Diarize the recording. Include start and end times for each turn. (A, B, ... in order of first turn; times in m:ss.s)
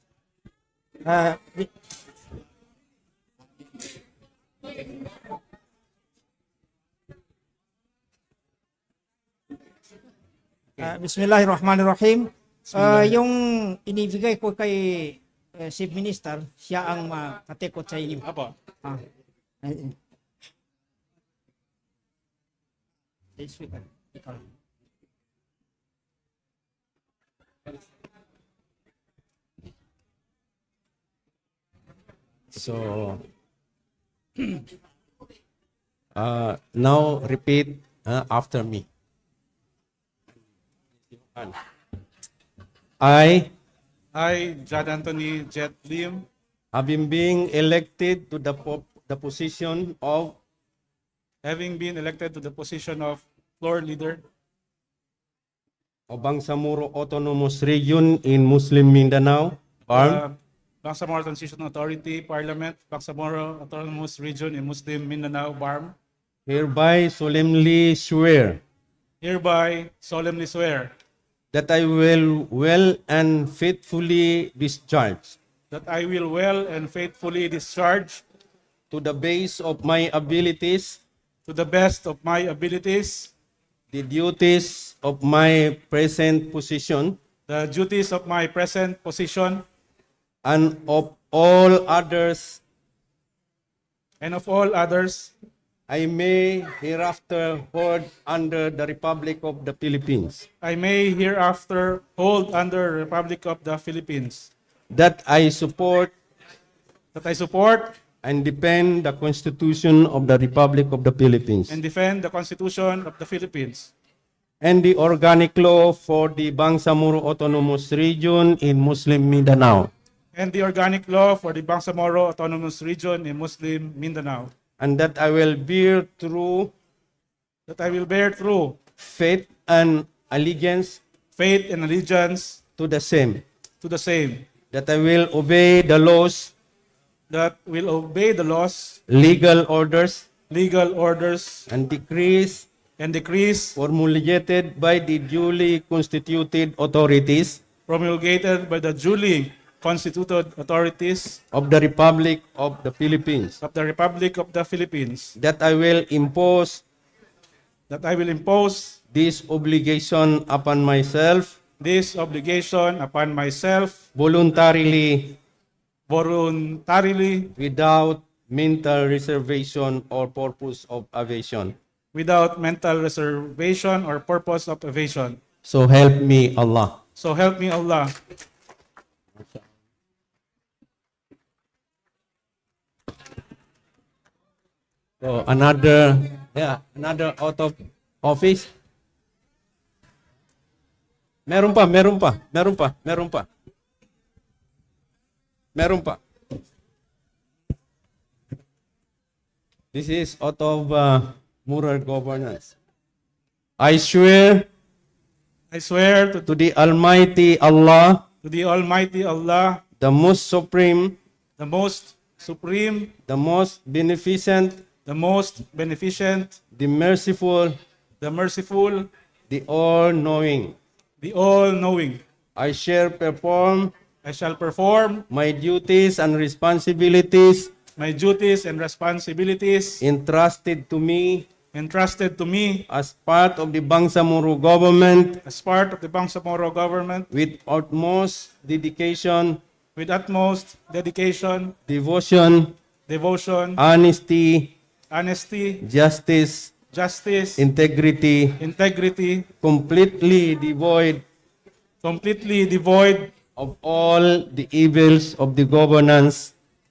0:01.0-0:01.7 A
0:10.8-0:18.2 A
0:12.7-0:13.1 B
0:18.2-0:18.5 B
0:19.6-0:19.9 A
0:23.4-0:24.4 A
0:32.5-0:33.2 C
0:36.1-0:38.9 C
0:41.2-0:41.6 C
0:43.0-0:43.5 C
0:44.1-0:46.3 B
0:46.7-0:50.4 C
0:51.4-0:54.2 B
0:56.1-1:00.2 C
0:59.9-1:06.0 B
1:06.5-1:08.6 C
1:09.2-1:10.9 B
1:11.5-1:15.4 C
1:15.7-1:18.2 B
1:18.9-1:21.0 C
1:21.4-1:23.3 B
1:23.9-1:27.2 C
1:27.5-1:29.6 B
1:30.4-1:32.6 C
1:34.2-1:35.3 B
1:35.9-1:40.5 C
1:40.6-1:44.5 B
1:44.9-1:46.1 C
1:47.1-1:48.0 B
1:48.2-1:51.8 C
1:51.7-1:53.9 B
1:54.6-1:59.9 C
2:00.3-2:04.5 B
2:04.8-2:06.7 C
2:07.7-2:08.8 B
2:09.0-2:11.0 C
2:11.3-2:12.6 B
2:12.8-2:13.4 C
2:13.8-2:14.5 B
2:14.7-2:16.5 C
2:17.3-2:19.0 B
2:19.1-2:20.3 C
2:20.5-2:21.7 B
2:21.7-2:22.7 C
2:23.0-2:23.8 B
2:23.8-2:27.6 C
2:27.9-2:31.4 B
2:31.5-2:33.6 C
2:33.6-2:35.3 B
2:35.4-2:36.8 C
2:37.9-2:39.0 B
2:39.1-2:41.6 C
2:41.8-2:44.0 B
2:44.1-2:45.4 C
2:46.1-2:47.5 B
2:47.6-2:51.7 C
2:52.1-2:55.4 B
2:55.6-2:57.0 C
2:57.2-2:58.1 B
3:05.2-3:08.7 C
3:11.5-3:13.5 C
3:15.7-3:16.2 C
3:19.9-3:22.7 C
3:23.8-3:24.7 C
3:25.7-3:26.5 B
3:26.5-3:28.2 C
3:28.4-3:29.8 B
3:30.0-3:31.2 C
3:31.6-3:33.1 B
3:33.3-3:34.8 C
3:35.0-3:36.6 B
3:36.7-3:37.8 C
3:38.2-3:39.1 B
3:39.5-3:40.8 C
3:41.2-3:42.2 B
3:42.6-3:43.9 C
3:44.2-3:45.2 B
3:45.3-3:47.7 C
3:48.0-3:50.0 B
3:50.0-3:51.5 C
3:51.7-3:52.8 B
3:52.9-3:55.4 C
3:55.4-3:57.3 B
3:57.3-3:59.6 C
4:00.0-4:01.7 B
4:01.9-4:02.7 C
4:03.1-4:03.8 B
4:03.8-4:04.7 C
4:05.1-4:05.8 B
4:05.8-4:06.7 C
4:06.9-4:07.7 B
4:07.6-4:08.6 C
4:08.6-4:09.5 B
4:09.6-4:11.2 C
4:12.0-4:13.3 B
4:13.6-4:16.5 C